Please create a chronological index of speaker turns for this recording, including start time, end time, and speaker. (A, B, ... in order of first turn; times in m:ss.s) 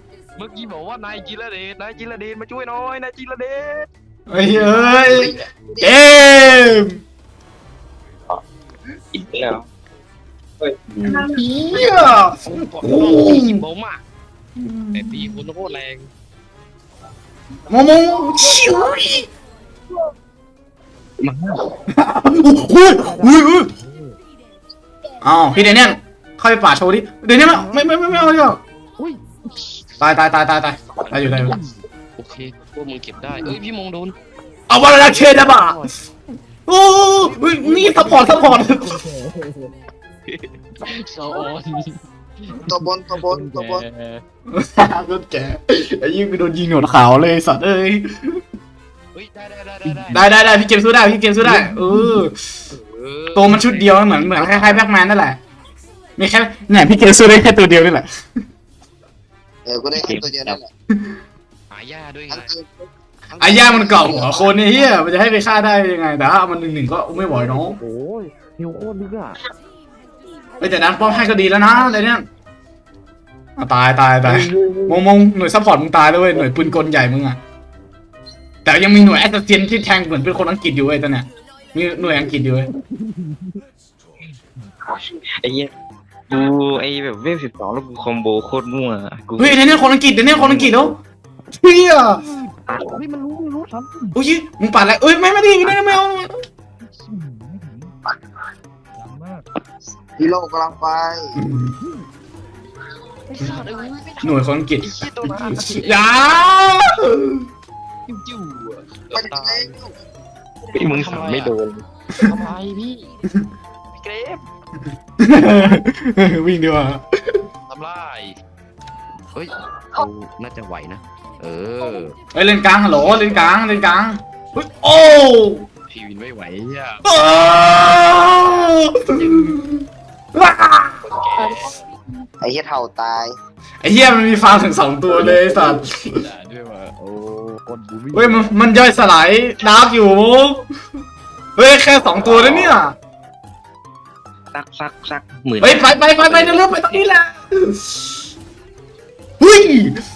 0:00.4-0:05.3 A
0:04.3-0:07.0 B
0:05.0-0:06.0 C
0:09.1-0:09.6 D
0:11.0-0:13.6 B
0:12.4-0:14.0 A
0:14.6-0:15.4 B
0:14.9-0:16.1 A
0:17.7-0:19.3 B
0:21.2-0:21.7 D
0:21.9-0:23.7 B
0:22.9-0:24.2 A
0:25.2-0:28.6 B
0:27.4-0:28.5 A
0:29.0-0:29.8 A
0:30.0-0:31.6 B
0:31.1-0:34.2 A
0:34.7-0:35.8 B
0:35.0-0:36.0 A
0:36.7-0:39.0 B
0:37.2-0:39.7 A
0:40.3-0:44.2 A
0:42.6-0:43.8 C
0:44.5-0:48.4 B
0:49.1-0:50.3 A
0:49.9-0:50.2 D
0:50.1-0:52.4 B
0:52.7-0:54.8 A
0:53.3-0:55.4 B
0:56.2-0:58.2 B
0:59.6-1:00.7 C
0:59.9-1:00.6 D
1:01.7-1:02.5 A
1:02.3-1:05.0 C
1:03.4-1:07.8 B
1:07.1-1:09.4 A
1:10.6-1:12.2 B
1:13.6-1:17.4 B
1:16.4-1:16.8 A
1:18.6-1:22.7 B
1:22.9-1:23.6 A
1:25.4-1:25.7 D
1:26.3-1:30.9 D
1:29.4-1:31.0 B
1:31.6-1:32.2 B
1:32.2-1:34.2 A
1:34.1-1:36.3 B
1:35.7-1:35.9 D
1:36.8-1:37.9 A
1:39.0-1:39.4 A
1:40.2-1:41.4 C
1:41.4-1:41.8 B
1:41.8-1:42.0 A
1:43.3-1:46.5 A
1:44.2-1:47.4 B
1:48.1-1:49.8 A
1:49.1-1:50.0 C
1:50.7-1:51.8 D
1:50.9-1:51.5 A
1:52.2-1:53.1 A
1:53.9-1:54.4 A
1:55.2-1:57.4 B
1:57.7-1:58.4 A
1:59.3-2:02.2 A
2:02.3-2:05.6 B
2:03.0-2:03.4 A
2:05.9-2:07.1 A
2:07.0-2:09.8 B
2:08.4-2:09.6 A
2:10.3-2:11.0 B
2:11.0-2:11.8 A
2:12.4-2:13.4 C
2:13.8-2:16.2 B
2:15.8-2:18.5 A
2:18.1-2:20.6 B
2:21.6-2:22.9 B
2:24.5-2:27.0 D
2:25.6-2:28.1 B
2:29.4-2:30.0 B